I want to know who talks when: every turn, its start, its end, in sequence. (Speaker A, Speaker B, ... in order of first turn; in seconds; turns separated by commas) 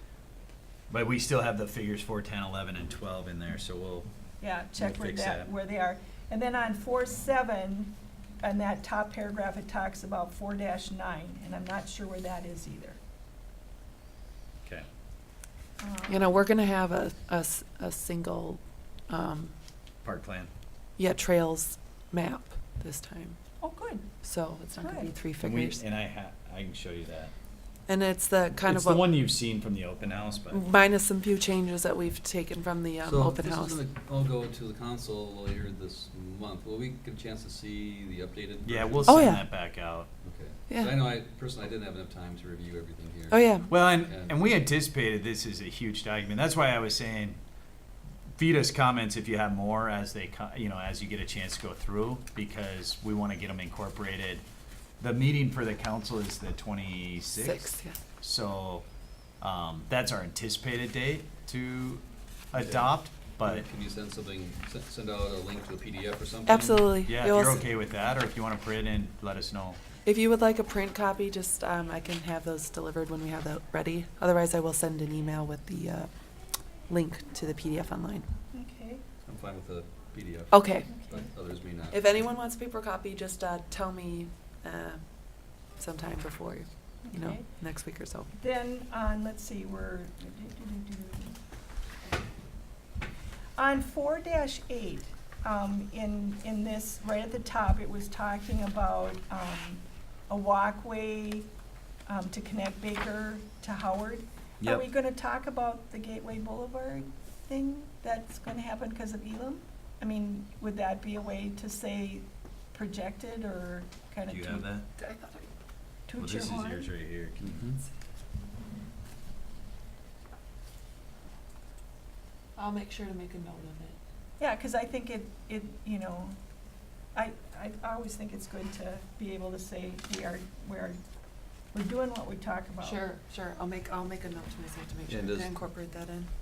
Speaker A: 0.9-4.1, Speaker B: 4.4-13.0, Speaker A: 4.8-5.5, Speaker B: 15.8-16.3, Speaker C: 16.1-19.5, Speaker A: 20.0-20.5, Speaker C: 21.0-23.4, Speaker B: 23.6-24.1, Speaker C: 24.2-25.8, Speaker B: 24.8-25.1, Speaker A: 25.4-27.3, Speaker C: 27.9-29.2, Speaker A: 28.7-30.6, Speaker C: 30.5-33.8, Speaker D: 33.0-39.3, Speaker A: 38.6-40.1, Speaker C: 39.1-39.5, Speaker D: 40.2-44.4, Speaker C: 40.7-41.1, Speaker C: 43.3-43.7, Speaker A: 43.7-47.4, Speaker A: 48.4-54.4, Speaker A: 55.0-58.9, Speaker C: 57.4-58.0, Speaker A: 59.4-63.7, Speaker D: 62.6-67.7, Speaker C: 66.5-67.7, Speaker A: 67.1-69.8, Speaker C: 70.0-76.1, Speaker C: 76.9-78.3, Speaker B: 78.5-79.0, Speaker D: 79.3-82.3, Speaker C: 80.5-80.9, Speaker B: 80.9-81.3, Speaker C: 81.9-85.0, Speaker C: 85.7-88.3, Speaker B: 87.0-87.4, Speaker B: 88.4-91.4, Speaker B: 93.6-101.5, Speaker B: 102.1-114.7, Speaker A: 104.6-104.9, Speaker A: 114.3-114.8, Speaker C: 115.0-115.5, Speaker B: 116.1-116.9, Speaker A: 116.2-117.7, Speaker D: 117.4-117.8, Speaker C: 122.6-124.0, Speaker B: 124.4-126.4, Speaker B: 127.1-131.0, Speaker B: 131.7-133.0, Speaker C: 132.8-136.3, Speaker D: 135.1-135.5